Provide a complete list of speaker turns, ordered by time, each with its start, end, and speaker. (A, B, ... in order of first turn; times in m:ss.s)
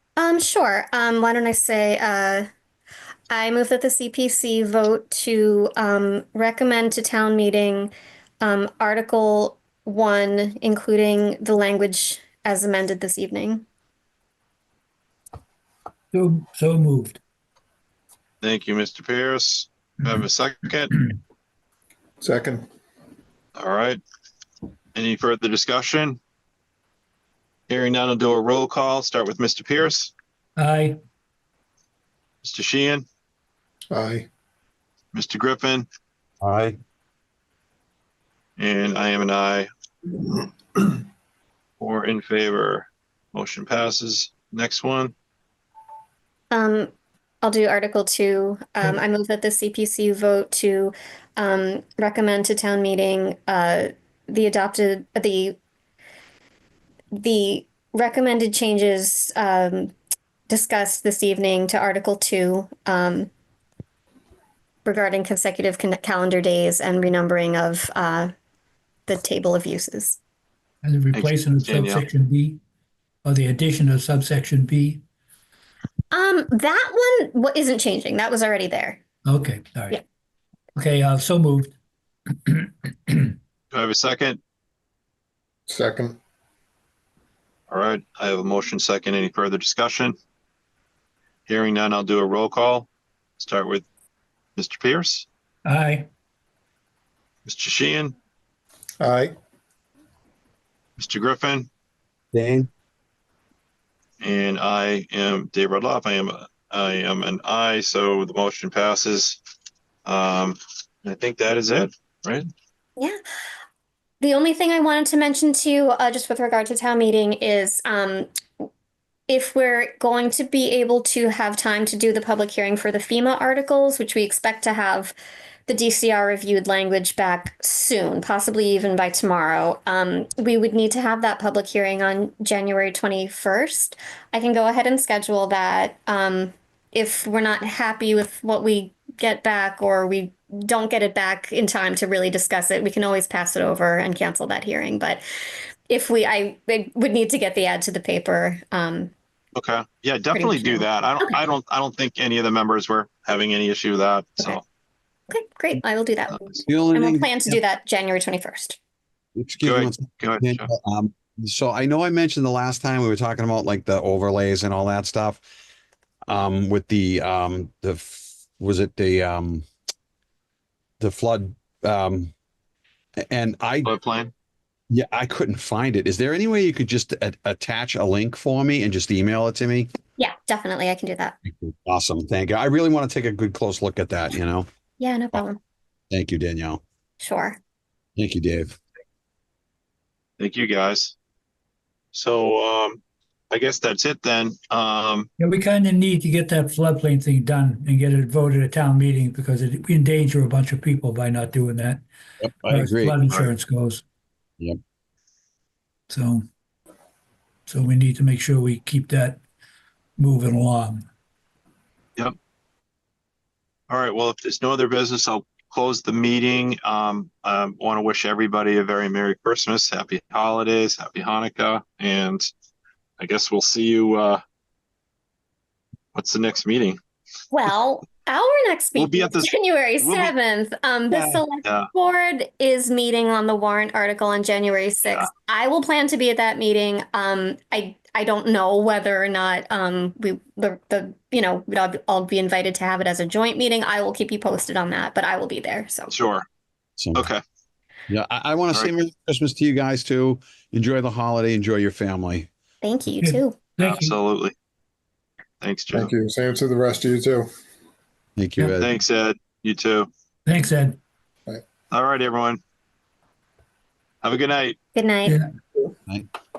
0:00.2-0:02.5 A
0:03.3-0:13.6 A
0:16.1-0:17.2 B
0:18.4-0:21.0 C
0:22.2-0:22.7 D
0:23.6-0:24.0 C
0:24.9-0:26.2 C
0:27.7-0:30.1 C
0:30.6-0:31.0 B
0:32.4-0:33.0 C
0:33.9-0:34.3 D
0:35.1-0:35.8 C
0:36.4-0:36.8 E
0:38.6-0:39.7 C
0:41.8-0:45.1 C
0:46.5-0:55.6 A
0:57.2-0:59.9 A
1:00.5-1:03.3 A
1:04.8-1:08.3 A
1:09.1-1:10.2 A
1:10.8-1:12.6 B
1:11.1-1:12.0 C
1:13.2-1:15.0 B
1:16.1-1:19.0 A
1:19.2-1:20.0 B
1:20.8-1:21.7 B
1:22.4-1:23.3 B
1:23.7-1:24.4 C
1:25.7-1:26.2 D
1:27.7-1:30.1 C
1:31.5-1:32.9 C
1:33.4-1:33.8 C
1:34.6-1:35.2 C
1:35.6-1:36.1 B
1:37.4-1:38.1 C
1:39.0-1:39.4 D
1:41.0-1:41.7 C
1:42.3-1:42.7 E
1:44.2-1:49.4 C
1:50.0-1:52.5 C
1:54.2-1:58.3 A
1:59.3-2:05.1 A
2:05.7-2:25.2 A
2:25.9-2:29.1 A
2:29.5-2:34.6 C
2:30.3-2:31.4 A
2:35.3-2:38.8 A
2:36.3-2:36.6 C
2:36.6-2:37.6 E
2:39.4-2:45.4 E
2:39.6-2:40.7 C
2:46.3-2:49.6 E
2:51.0-2:52.3 E
2:53.3-2:53.9 E
2:53.8-2:54.3 C
2:54.9-2:59.9 E
3:00.2-3:01.4 A
3:01.4-3:04.7 E
3:05.0-3:05.6 A
3:06.1-3:06.8 E
3:07.2-3:07.6 A
3:08.2-3:08.8 E
3:10.4-3:11.1 C
3:12.1-3:15.3 C
3:15.4-3:22.0 B
3:22.4-3:23.2 E
3:22.7-3:24.0 B
3:26.1-3:26.4 B
3:27.7-3:29.4 B
3:30.2-3:31.1 B
3:33.9-3:42.5 C
3:43.2-3:44.4 C
3:46.1-3:47.0 C
3:47.5-4:06.1 A
3:48.9-3:49.5 C
3:50.0-3:50.3 C
3:51.2-3:51.9 C
4:06.1-4:06.4 C
4:07.0-4:07.3 E
4:07.1-4:07.4 C
4:08.1-4:12.5 E
4:12.8-4:13.6 A
4:13.2-4:14.1 B
4:13.8-4:14.5 C
4:15.6-4:16.1 C
4:15.9-4:17.5 D
4:18.4-4:18.9 E
4:18.8-4:20.1 C
4:20.4-4:21.0 B
4:21.9-4:22.6 C
4:24.2-4:24.8 C
4:24.9-4:25.4 A